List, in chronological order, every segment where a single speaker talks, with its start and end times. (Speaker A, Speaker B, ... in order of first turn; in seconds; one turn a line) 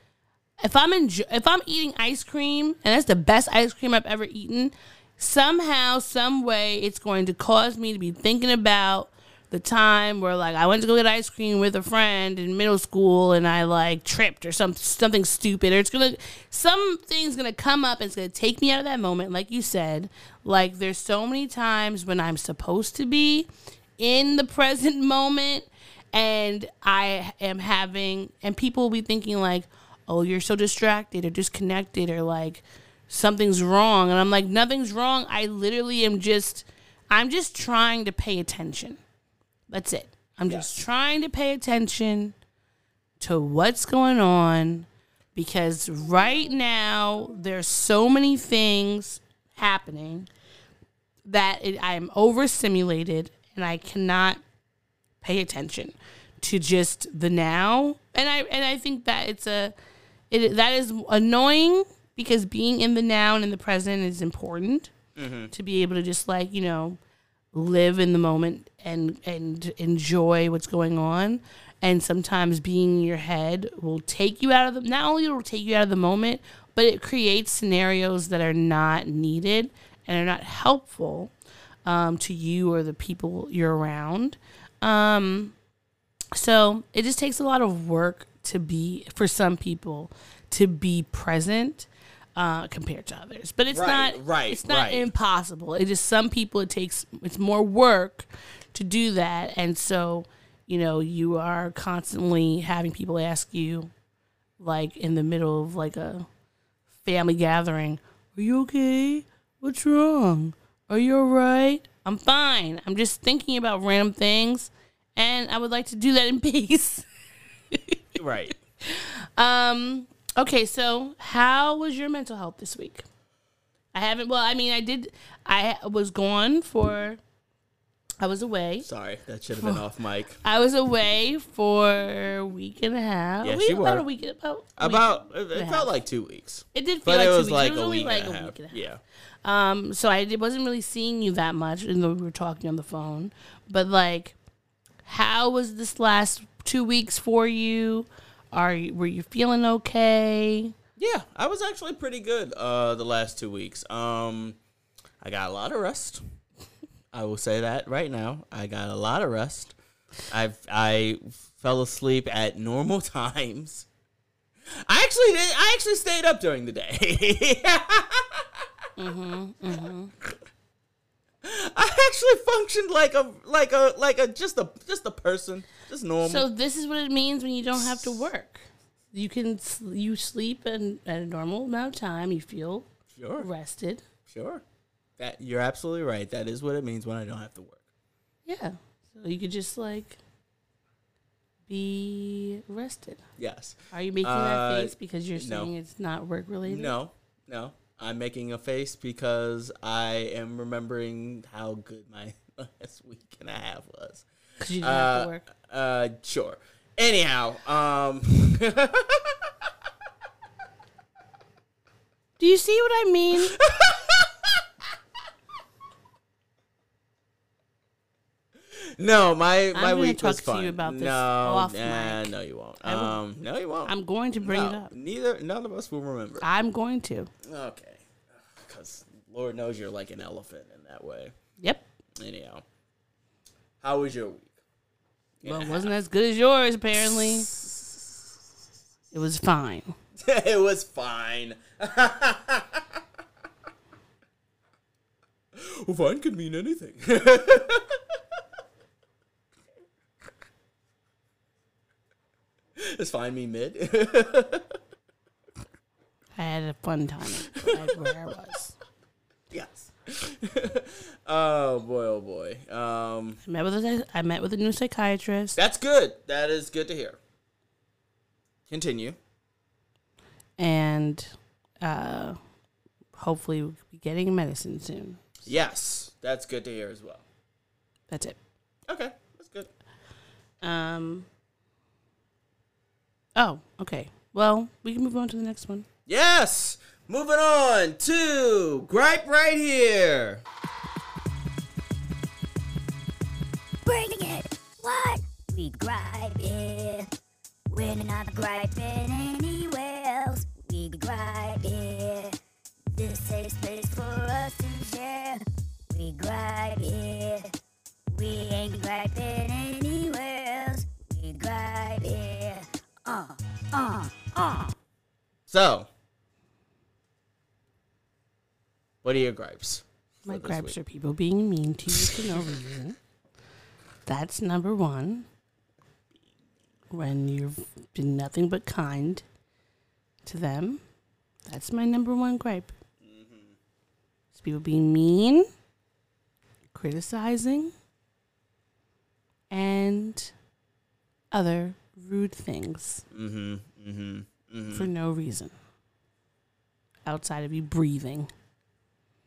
Speaker A: 0.6-23.5
Speaker A: 24.0-39.0
Speaker A: 39.7-42.3
Speaker A: 43.2-50.3
Speaker A: 51.2-54.4
Speaker A: 55.2-59.7
Speaker A: 60.3-64.9
Speaker B: 65.2-65.5
Speaker A: 65.5-67.0
Speaker A: 67.5-81.3
Speaker A: 81.8-85.5
Speaker A: 86.3-103.9
Speaker B: 93.7-95.1
Speaker A: 104.6-106.3
Speaker A: 107.0-117.0
Speaker A: 117.7-118.0
Speaker B: 118.2-118.5
Speaker A: 118.8-123.0
Speaker A: 123.9-127.2
Speaker A: 128.2-128.9
Speaker B: 128.8-130.4
Speaker A: 130.4-135.9
Speaker B: 133.4-134.0
Speaker B: 134.8-139.0
Speaker A: 136.7-138.8
Speaker A: 139.4-144.3
Speaker A: 145.0-150.7
Speaker B: 151.0-154.6
Speaker B: 155.2-156.2
Speaker B: 157.1-159.7
Speaker B: 160.3-163.8
Speaker B: 164.8-168.7
Speaker A: 169.0-170.1
Speaker B: 171.4-176.5
Speaker A: 176.2-182.9
Speaker B: 177.7-178.2
Speaker B: 183.1-183.5
Speaker A: 183.4-184.0
Speaker B: 184.3-184.6
Speaker B: 185.2-187.8
Speaker A: 188.4-190.2
Speaker A: 191.7-193.2
Speaker B: 193.4-195.7
Speaker A: 193.9-196.9
Speaker B: 196.6-204.2
Speaker A: 204.6-205.4
Speaker B: 204.8-209.5
Speaker A: 212.4-213.6
Speaker B: 213.3-214.6
Speaker B: 219.0-226.4
Speaker A: 219.7-223.2
Speaker A: 223.8-224.9
Speaker A: 226.4-227.3
Speaker B: 227.4-231.3
Speaker A: 231.6-231.8
Speaker B: 232.2-232.6
Speaker B: 233.8-234.5
Speaker B: 235.4-235.9
Speaker A: 235.4-237.5
Speaker B: 237.0-238.0
Speaker A: 239.1-239.9
Speaker B: 240.2-243.0
Speaker B: 245.5-248.0
Speaker B: 252.8-254.7
Speaker A: 256.4-258.7
Speaker B: 257.6-258.1
Speaker B: 259.5-263.4
Speaker A: 263.4-265.6
Speaker B: 265.6-267.2
Speaker B: 268.7-269.2
Speaker A: 270.6-271.3
Speaker A: 271.8-272.4
Speaker A: 273.1-275.2
Speaker B: 275.4-277.2
Speaker A: 278.1-278.4
Speaker B: 278.9-279.7
Speaker A: 280.6-281.3
Speaker A: 283.4-285.8
Speaker B: 286.1-290.4
Speaker C: 293.8-297.1
Speaker C: 297.7-302.3
Speaker C: 302.9-307.5
Speaker C: 308.1-314.7
Speaker B: 315.5-315.9
Speaker B: 319.0-320.8
Speaker A: 320.2-323.0
Speaker B: 321.9-322.4
Speaker A: 324.1-325.2
Speaker A: 326.9-329.2
Speaker A: 330.2-330.8
Speaker A: 331.4-332.7
Speaker B: 333.0-333.5
Speaker A: 334.3-335.5
Speaker A: 336.7-337.7
Speaker A: 339.5-340.3
Speaker A: 341.3-343.0
Speaker B: 343.1-344.9
Speaker A: 344.7-345.5
Speaker A: 347.1-348.3